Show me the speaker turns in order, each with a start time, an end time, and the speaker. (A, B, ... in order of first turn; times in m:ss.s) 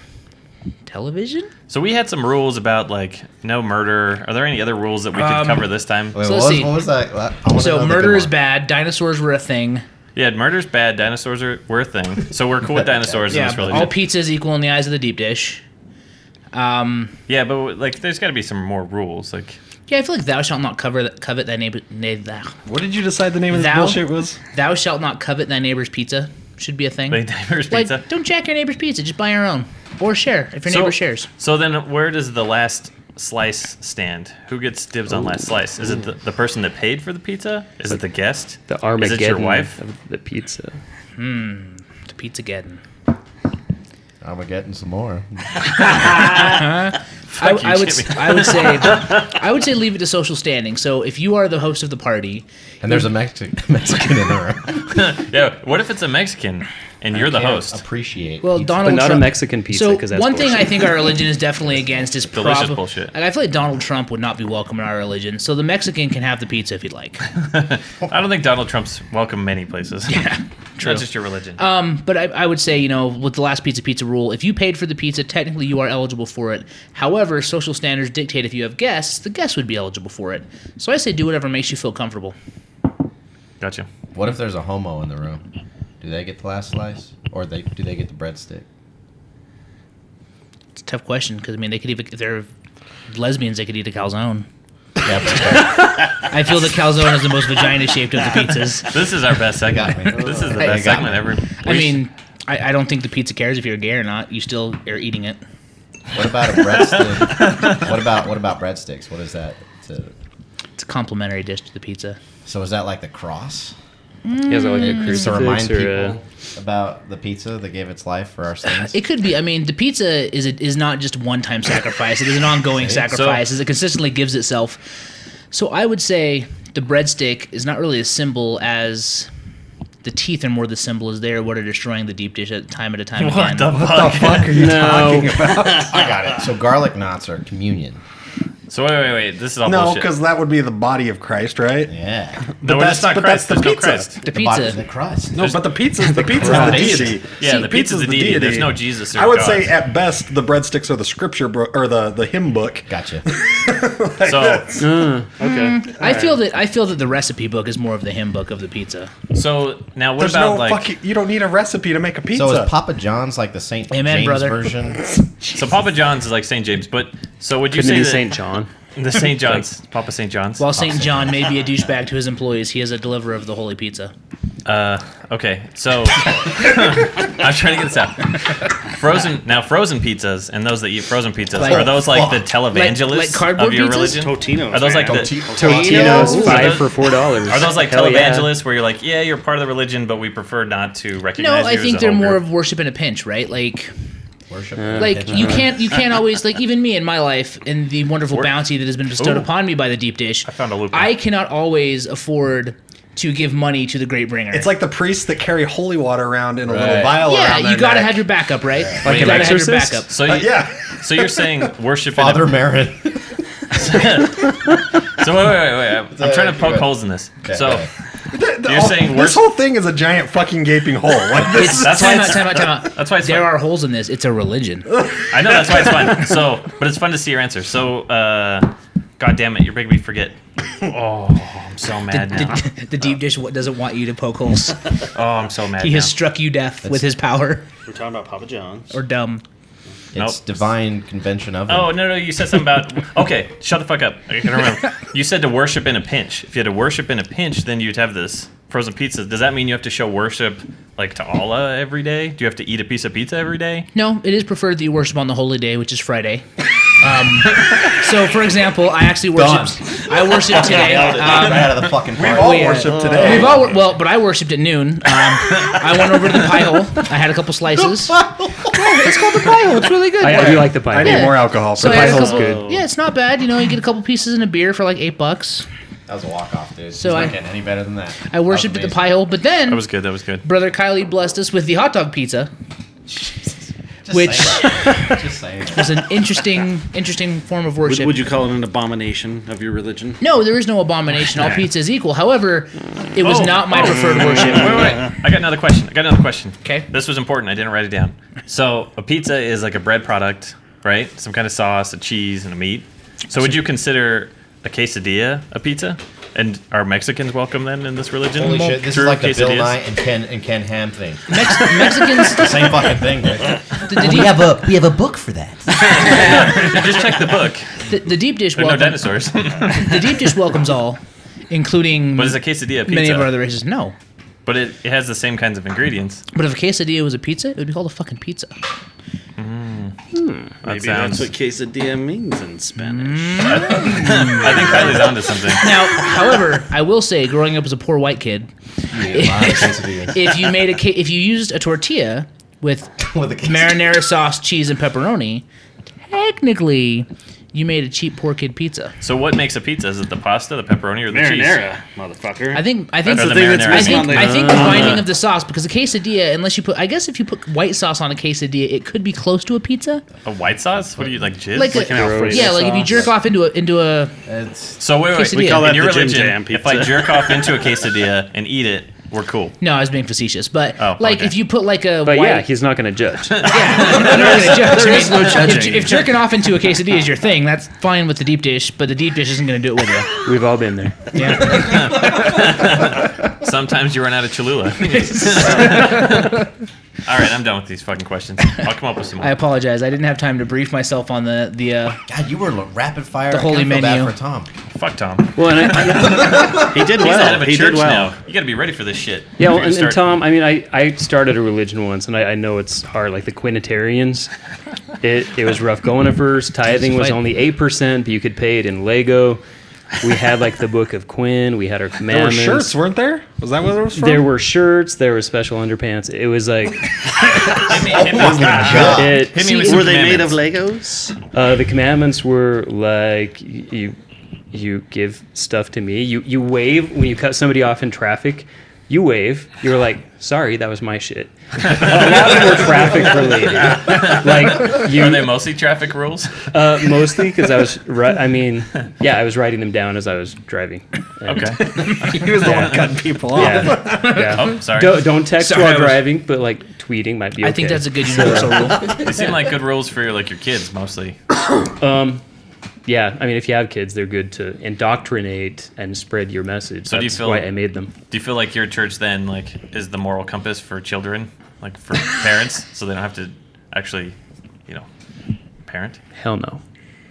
0:00.8-0:01.5 A
0:01.7-0:06.2 B
0:05.1-0:06.8 A
0:06.1-0:08.3 C
0:07.5-0:09.8 A
0:10.1-0:14.0 B
0:12.6-0:13.9 C
0:13.3-0:15.6 A
0:16.5-0:17.1 A
0:17.3-0:19.6 B
0:19.9-0:22.5 A
0:22.6-0:24.4 D
0:23.5-0:31.3 A
0:27.1-0:28.0 B
0:30.6-0:39.8 B
0:38.7-0:40.8 E
0:41.2-0:42.8 A
0:44.2-0:45.5 C
0:46.0-0:46.6 B
0:46.1-0:52.4 A
0:47.3-0:48.9 B
0:52.8-0:55.0 C
0:54.9-0:57.8 B
0:57.1-0:59.2 C
0:58.4-1:07.2 A
0:58.8-1:00.9 E
1:01.8-1:02.2 C
1:02.3-1:03.1 B
1:07.3-1:10.3 B
1:10.1-1:22.4 A
1:10.8-1:11.6 B
1:23.6-1:23.9 B
1:24.1-1:25.4 C
1:26.0-1:28.6 C
1:30.8-1:32.5 A
1:33.1-1:34.5 A
1:35.0-1:35.8 C
1:36.3-1:38.9 A
1:38.9-1:42.0 B
1:39.6-1:41.3 C
1:40.6-1:41.0 A
1:41.6-1:45.4 A
1:46.1-1:50.1 C
1:50.8-1:52.2 A
1:52.4-1:53.7 C
1:54.2-1:55.4 A
1:54.5-1:56.2 E
1:54.9-1:58.9 C
1:58.7-2:04.8 A
2:02.8-2:03.0 C
2:03.1-2:03.4 B
2:05.5-2:09.3 A
2:10.0-2:13.7 A
2:13.2-2:14.6 B
2:13.7-2:16.0 D
2:14.5-2:15.5 E
2:15.9-2:18.0 C
2:18.7-2:20.1 B
2:19.6-2:21.9 D
2:21.9-2:22.5 C
2:22.6-2:24.1 D
2:22.6-2:24.2 B
2:24.2-2:24.8 A
2:24.2-2:25.5 C
2:25.3-2:35.1 D
2:26.0-2:27.1 E
2:26.4-2:27.2 C
2:27.4-2:29.8 B
2:32.9-2:33.2 C
2:34.2-2:34.7 B
2:34.8-2:35.3 E
2:35.4-2:36.3 F
2:35.4-2:39.1 A
2:39.3-2:40.9 B
2:40.2-2:42.7 D
2:42.3-2:45.0 C
2:43.9-2:44.6 A
2:45.5-2:48.4 B
2:47.7-2:49.6 E
2:49.0-2:50.7 B
2:50.6-2:54.1 A
2:50.7-2:51.4 C
2:54.6-3:05.5 B
3:01.5-3:02.5 C
3:01.6-3:02.1 A
3:02.7-3:04.2 A
3:04.2-3:06.5 F
3:05.0-3:06.6 C
3:05.5-3:08.6 E
3:06.0-3:06.6 A
3:06.2-3:12.4 B
3:11.4-3:13.9 A
3:14.5-3:15.7 C
3:14.8-3:15.6 E
3:15.0-3:24.7 A
3:19.2-3:19.5 B
3:20.4-3:21.1 B
3:24.5-3:28.2 D
3:26.7-3:27.1 B
3:27.2-3:30.1 A
3:28.8-3:29.0 C
3:29.0-3:30.1 E
3:29.0-3:29.6 B
3:30.1-3:32.6 B
3:30.2-3:31.5 D
3:32.1-3:33.3 C
3:33.7-3:37.9 B
3:36.1-3:37.9 C
3:38.3-3:42.5 D
3:38.6-3:39.4 B
3:41.4-3:44.9 A
3:41.7-3:43.6 B
3:44.9-3:46.2 D
3:45.3-3:52.6 B
3:52.1-3:54.8 A
3:55.1-3:56.1 B
3:55.8-3:57.7 A
3:57.8-3:59.0 F
3:58.9-3:59.4 A
4:00.1-4:02.0 C
4:00.2-4:00.6 B
4:01.7-4:13.9 B
4:13.9-4:16.4 A
4:17.0-4:28.2 A
4:19.3-4:23.7 C
4:20.6-4:21.2 F
4:22.1-4:23.7 D
4:23.0-4:23.4 F
4:27.8-4:28.8 C
4:28.8-4:35.6 A
4:28.8-4:32.5 D
4:30.2-4:32.8 E
4:36.1-4:39.1 C
4:36.9-4:37.3 A
4:38.3-4:39.8 A
4:39.7-4:40.4 B
4:40.4-4:42.5 A
4:43.1-4:43.5 C
4:44.0-4:46.0 C
4:44.1-4:45.2 A
4:45.7-4:48.2 A
4:47.8-4:50.2 F
4:50.2-4:55.0 A
4:51.3-4:51.6 F
4:53.2-5:09.8 B
4:54.1-4:55.0 F
5:08.3-5:11.6 C
5:11.3-5:12.6 A
5:12.2-5:15.8 C
5:13.8-5:14.4 A
5:15.7-5:17.8 B
5:16.1-5:16.5 A
5:17.9-5:23.9 A
5:18.5-5:20.2 B
5:22.2-5:23.4 B
5:24.4-5:26.2 B
5:26.3-5:28.5 A
5:29.4-5:29.9 B
5:30.1-5:30.5 E
5:30.6-5:31.3 B
5:30.6-5:35.0 F
5:32.8-5:35.0 A
5:33.4-5:35.7 B
5:35.6-5:45.4 A
5:38.9-5:40.2 C
5:43.0-5:43.9 C
5:46.1-5:48.9 A
5:49.0-5:51.6 B
5:51.1-5:55.0 F
5:52.5-6:00.0 A
5:53.1-5:55.0 B
5:54.1-5:55.0 E
6:00.2-6:02.2 B
6:01.5-6:04.1 A
6:01.7-6:03.0 F
6:01.8-6:03.0 E
6:04.2-6:04.8 C
6:04.8-6:09.6 B
6:05.1-6:05.7 A
6:05.2-6:07.5 F
6:09.6-6:12.5 A
6:10.8-6:11.4 B
6:12.0-6:13.6 E
6:13.4-6:14.7 B
6:13.4-6:20.1 A
6:13.9-6:16.1 F
6:14.8-6:15.1 E
6:20.2-6:21.1 E
6:21.1-6:22.1 A
6:21.3-6:26.4 B
6:25.0-6:26.2 A
6:27.0-6:29.3 B
6:29.2-6:32.0 A
6:32.1-6:34.5 C
6:33.3-6:34.1 A
6:34.7-6:40.1 B
6:35.4-6:36.6 E
6:36.5-6:38.1 F
6:39.4-6:44.3 E
6:45.0-6:49.4 E
6:46.7-6:47.2 A
6:50.0-6:52.7 E
6:52.1-6:54.3 D
6:53.9-6:56.9 E
6:57.3-7:00.4 B
6:57.7-6:59.2 C
6:58.7-6:59.5 E
6:59.4-6:59.8 A
6:59.4-7:01.2 F
7:01.3-7:04.0 E
7:04.5-7:15.3 E
7:11.7-7:12.9 B
7:13.6-7:16.5 B
7:16.5-7:29.0 E
7:21.2-7:23.0 B
7:21.6-7:24.4 D
7:23.8-7:24.2 A
7:24.2-7:25.2 B
7:25.4-7:26.0 A
7:27.4-7:29.1 A
7:28.8-7:31.2 B
7:31.8-7:32.2 E
7:32.8-7:37.9 E
7:36.9-7:37.5 B
7:38.1-7:44.2 B
7:45.6-7:46.0 B
7:46.2-7:46.6 E